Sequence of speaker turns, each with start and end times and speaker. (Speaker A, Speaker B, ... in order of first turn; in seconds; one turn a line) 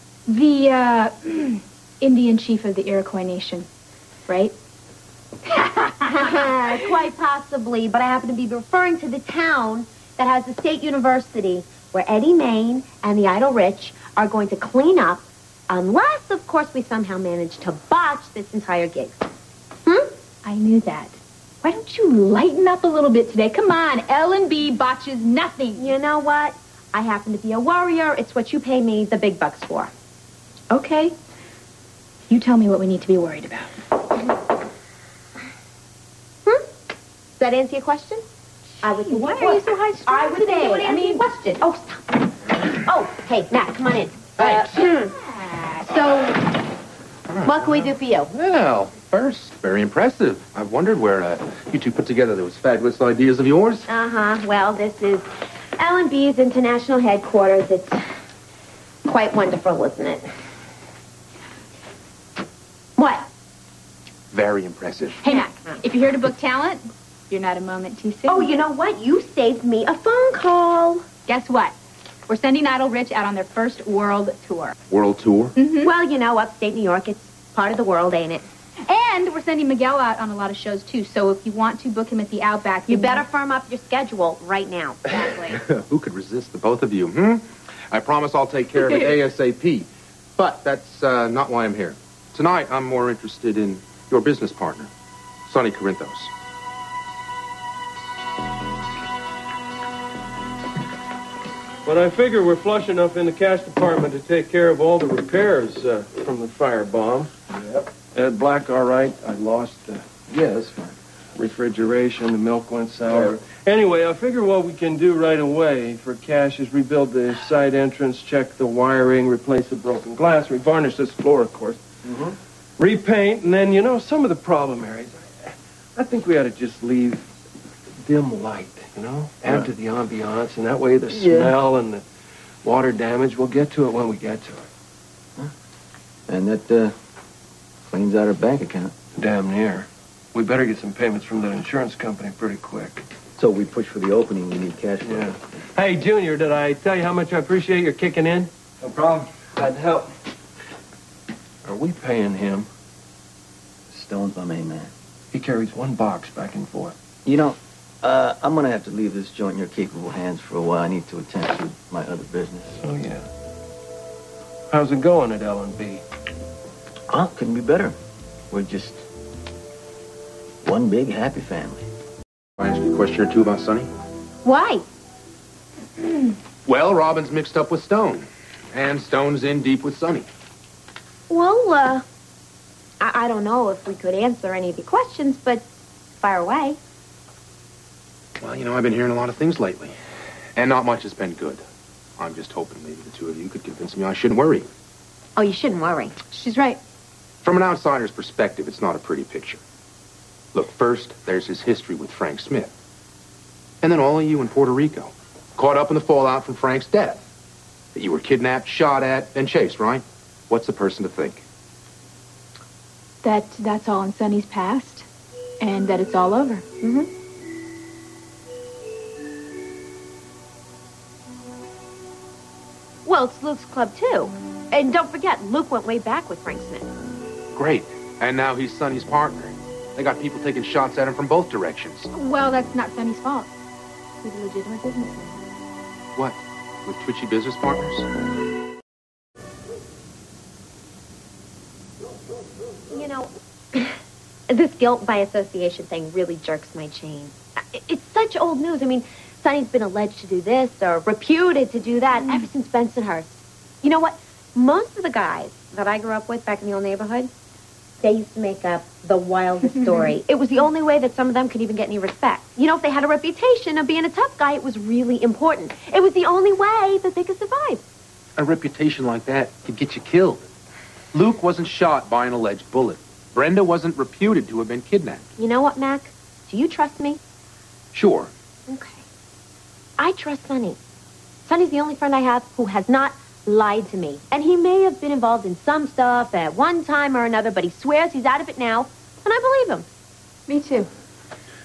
Speaker A: 0.3-3.7
Speaker A: 4.3-4.5
Speaker A: 5.5-6.1
Speaker B: 6.1-19.2
Speaker A: 20.4-25.9
Speaker B: 25.8-29.9
Speaker A: 30.7-31.1
Speaker A: 32.3-33.7
Speaker B: 37.4-38.2
Speaker B: 38.8-45.1
Speaker A: 39.0-41.6
Speaker A: 45.3-46.3
Speaker C: 47.3-53.9
Speaker B: 47.4-48.3
Speaker B: 53.9-58.0
Speaker B: 59.0-60.3
Speaker B: 63.0-63.3
Speaker C: 64.3-65.2
Speaker A: 65.2-68.5
Speaker B: 68.3-71.0
Speaker A: 71.3-71.8
Speaker A: 72.3-74.7
Speaker C: 74.9-75.5
Speaker A: 75.5-75.9
Speaker B: 75.8-78.4
Speaker A: 78.8-83.2
Speaker B: 82.9-85.5
Speaker C: 85.5-94.9
Speaker A: 88.8-89.1
Speaker C: 95.5-96.3
Speaker D: 101.8-121.8
Speaker E: 122.0-122.3
Speaker D: 122.8-127.2
Speaker D: 128.0-132.1
Speaker E: 131.1-131.5
Speaker D: 132.6-134.7
Speaker E: 136.3-136.9
Speaker E: 137.9-138.9
Speaker D: 139.2-143.1
Speaker E: 143.4-145.3
Speaker D: 145.0-150.1
Speaker D: 151.6-152.7
Speaker E: 153.9-154.9
Speaker D: 155.3-156.9
Speaker E: 157.2-162.8
Speaker D: 162.8-163.2
Speaker D: 164.7-166.0
Speaker E: 167.1-167.9
Speaker E: 168.5-169.0
Speaker E: 170.6-171.9
Speaker C: 172.6-173.9
Speaker B: 174.4-174.8
Speaker C: 176.7-180.2
Speaker B: 181.3-182.0
Speaker B: 183.0-185.6
Speaker B: 186.2-186.8
Speaker C: 188.4-189.9
Speaker C: 190.6-191.6
Speaker C: 192.2-194.7
Speaker B: 195.3-196.1
Speaker A: 196.3-196.8
Speaker C: 197.4-199.6
Speaker C: 200.5-202.7
Speaker C: 203.8-207.2
Speaker C: 207.9-211.4
Speaker A: 213.2-215.1
Speaker A: 215.6-216.6
Speaker B: 216.8-217.1
Speaker B: 223.0-226.9
Speaker C: 227.5-232.1
Speaker A: 232.1-233.5
Speaker A: 234.2-235.4
Speaker C: 236.1-238.1
Speaker B: 242.9-243.9
Speaker B: 244.5-257.3
Speaker B: 258.0-267.8
Speaker A: 259.7-260.1
Speaker C: 268.4-270.4
Speaker C: 271.1-275.2
Speaker B: 275.4-277.2
Speaker C: 277.9-278.3
Speaker B: 278.7-279.0
Speaker B: 280.0-280.8
Speaker B: 281.4-289.9
Speaker A: 290.5-290.9